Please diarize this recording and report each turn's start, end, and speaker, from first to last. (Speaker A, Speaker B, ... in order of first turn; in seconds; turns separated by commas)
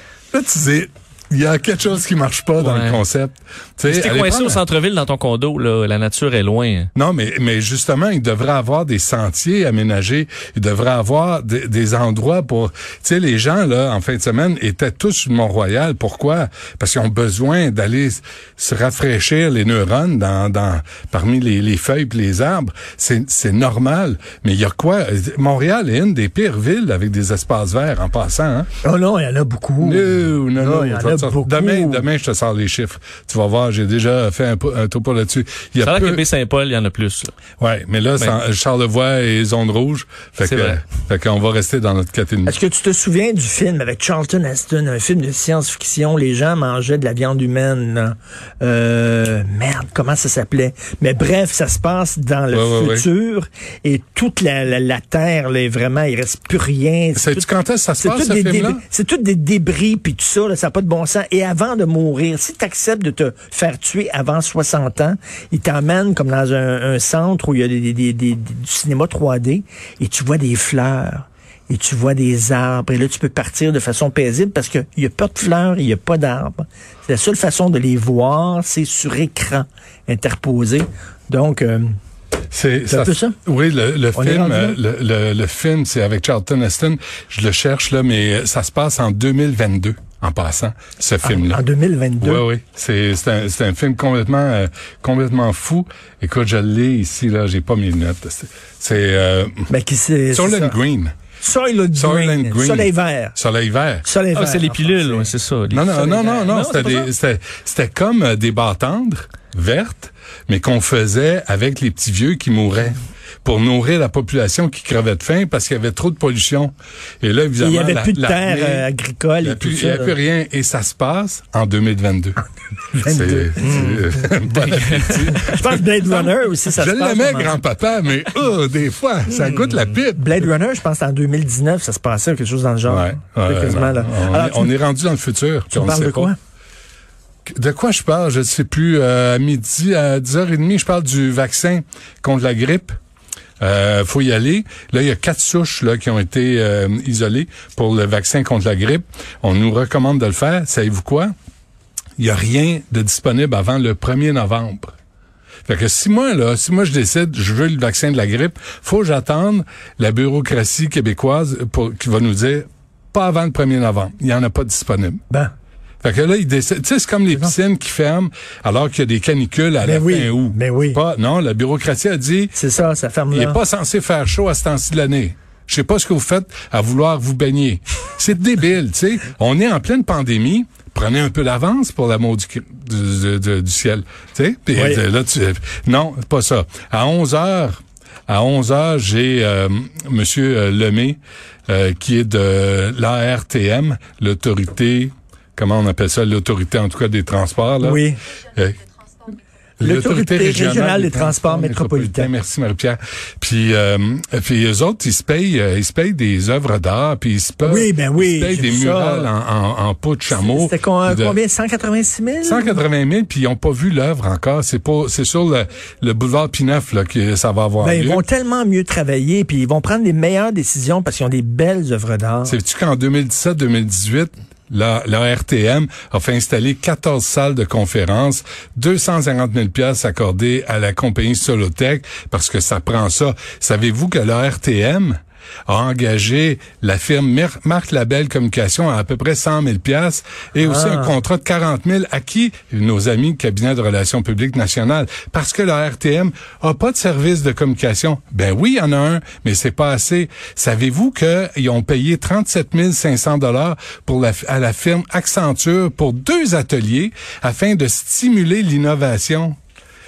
Speaker A: 0.3-4.6, Speaker B: 2.6-3.0, Speaker B: 3.9-6.9, Speaker A: 7.0-28.7, Speaker C: 28.8-32.0, Speaker A: 29.8-36.2, Speaker B: 35.8-37.3, Speaker A: 37.6-42.5, Speaker B: 40.4-40.8, Speaker C: 42.5-57.5, Speaker A: 52.5-53.0, Speaker A: 57.1-58.8, Speaker C: 58.0-81.9, Speaker A: 82.5-91.6, Speaker C: 82.9-83.3, Speaker C: 84.1-84.8, Speaker C: 91.2-92.4, Speaker A: 92.2-99.7, Speaker C: 99.7-100.8, Speaker A: 100.3-101.1, Speaker C: 101.4-103.3, Speaker A: 101.9-104.0, Speaker C: 104.0-105.3, Speaker B: 104.3-107.1, Speaker A: 105.7-118.8, Speaker C: 117.6-120.1, Speaker A: 119.4-122.4, Speaker A: 122.9-130.3, Speaker C: 123.0-124.2, Speaker B: 123.6-124.0, Speaker B: 124.7-125.3, Speaker C: 125.3-127.6, Speaker B: 129.4-129.9, Speaker C: 130.2-134.7, Speaker A: 132.9-136.3, Speaker C: 135.7-136.4, Speaker A: 137.5-142.9, Speaker A: 143.6-151.3, Speaker A: 152.2-154.9, Speaker A: 155.7-165.2, Speaker A: 166.0-172.5, Speaker C: 169.8-171.0, Speaker C: 172.5-173.6, Speaker A: 173.3-198.0, Speaker C: 184.7-185.0, Speaker C: 197.8-198.2, Speaker A: 198.5-198.8, Speaker A: 199.8-211.4, Speaker C: 199.8-202.3, Speaker C: 207.6-209.3, Speaker C: 210.3-212.8, Speaker A: 212.4-218.2, Speaker C: 217.8-222.6, Speaker A: 222.4-259.6, Speaker C: 240.6-241.2